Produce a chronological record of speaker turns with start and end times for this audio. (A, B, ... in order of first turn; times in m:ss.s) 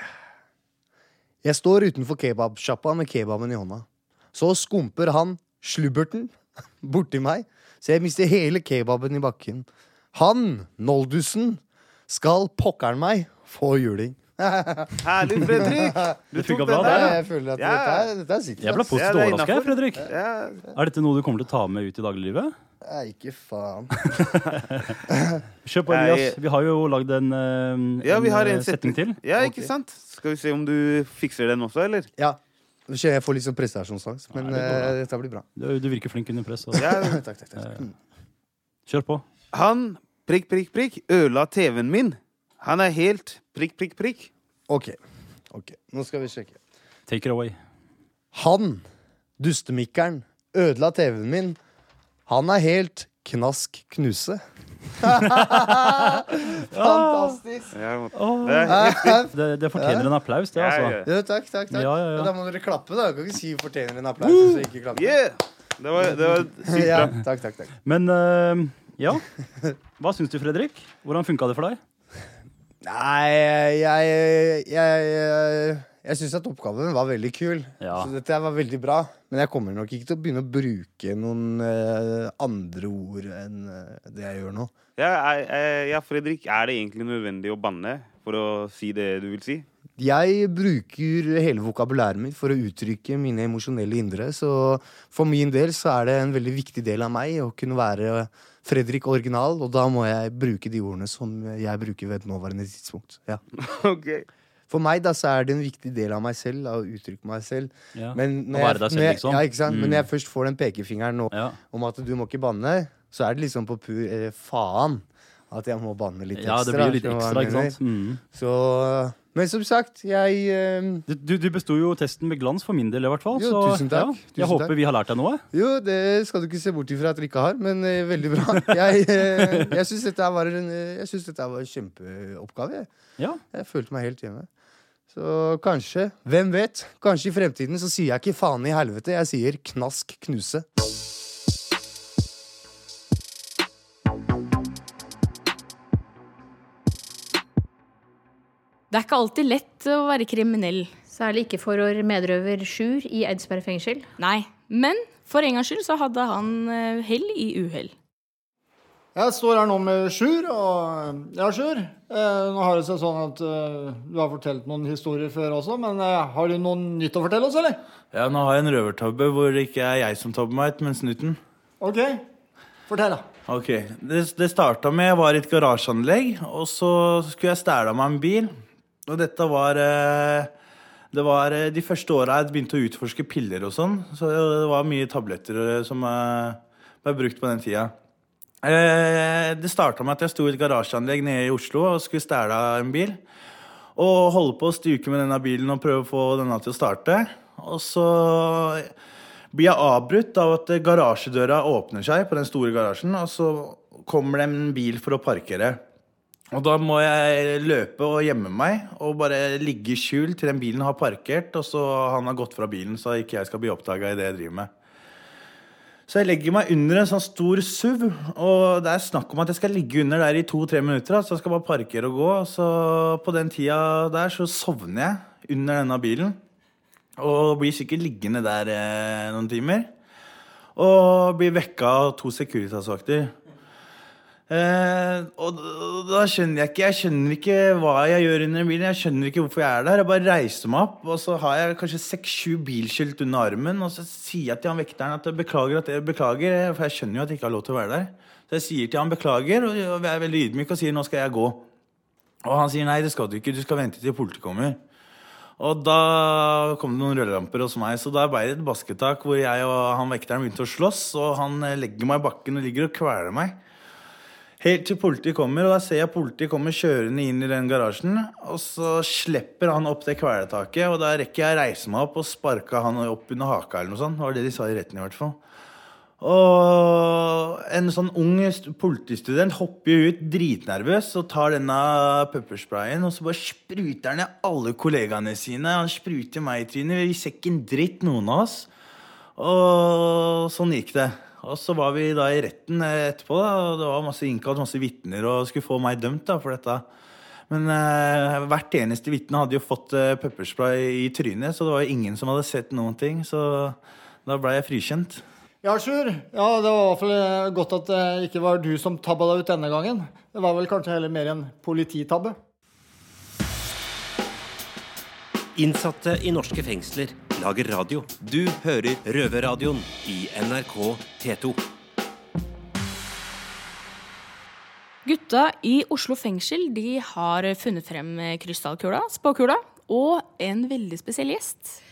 0:01.4-0:16.2 A
0:15.0-0:18.1 B
0:16.4-0:17.2 C
0:16.7-0:19.0 A
0:18.6-0:20.1 C
0:18.9-0:20.6 B
0:20.7-0:22.5 C
0:22.8-0:24.2 A
0:24.1-0:25.0 C
0:25.1-0:25.4 A
0:25.6-0:29.2 C
0:25.9-0:26.4 B
0:28.0-0:32.1 B
0:29.4-0:29.7 A
0:32.2-0:35.4 A
0:34.4-0:34.9 C
0:35.6-0:36.9 C
0:36.8-0:37.2 B
0:36.8-0:37.9 A
0:37.6-0:37.8 C
0:38.9-0:39.2 C
0:39.5-0:44.3 B
0:44.7-0:45.0 A
0:45.5-0:46.6 A
0:47.1-0:47.6 C
0:48.3-0:48.8 A
0:49.4-0:51.6 A
0:52.3-0:57.7 A
0:55.3-0:57.4 C
0:57.7-0:59.2 B
0:58.2-1:01.0 C
0:58.6-1:00.1 A
1:00.6-1:01.1 B
1:01.0-1:05.2 A
1:01.7-1:02.3 C
1:05.0-1:07.1 B
1:06.0-1:07.7 A
1:07.8-1:09.2 C
1:10.0-1:11.8 C
1:12.8-1:24.7 A
1:17.8-1:18.1 C
1:25.0-1:29.7 B
1:30.0-1:43.4 A
1:43.6-1:44.3 B
1:44.7-1:57.8 A
1:48.0-1:50.1 C
1:51.3-1:51.6 C
1:56.4-1:58.2 C
1:58.3-2:01.1 A
2:01.1-2:05.4 C
2:03.3-2:04.7 A
2:05.5-2:12.9 A
2:09.3-2:09.7 C
2:13.5-2:14.5 A
2:15.1-2:20.7 A
2:28.9-2:30.9 D
2:31.1-2:34.1 E
2:34.2-2:37.9 D
2:39.2-2:47.8 F
2:48.1-2:51.4 G
2:51.8-2:52.3 F
2:52.9-2:53.2 F
2:53.5-2:58.5 G
2:59.1-3:00.5 G
3:01.1-3:07.9 G
3:08.6-3:13.2 G
3:14.0-3:18.9 G
3:19.5-3:25.8 G
3:26.5-3:34.7 G
3:36.1-3:46.4 G
3:47.2-3:49.9 G
3:50.8-3:53.3 G
3:54.5-4:11.6 G
4:12.4-4:14.8 G
4:15.6-4:23.6 G
4:24.6-4:35.4 G
4:36.2-4:48.7 G
4:49.4-4:56.9 G
4:57.5-5:05.2 G
5:05.6-5:12.4 F
5:15.6-5:21.6 H
5:25.1-5:31.8 D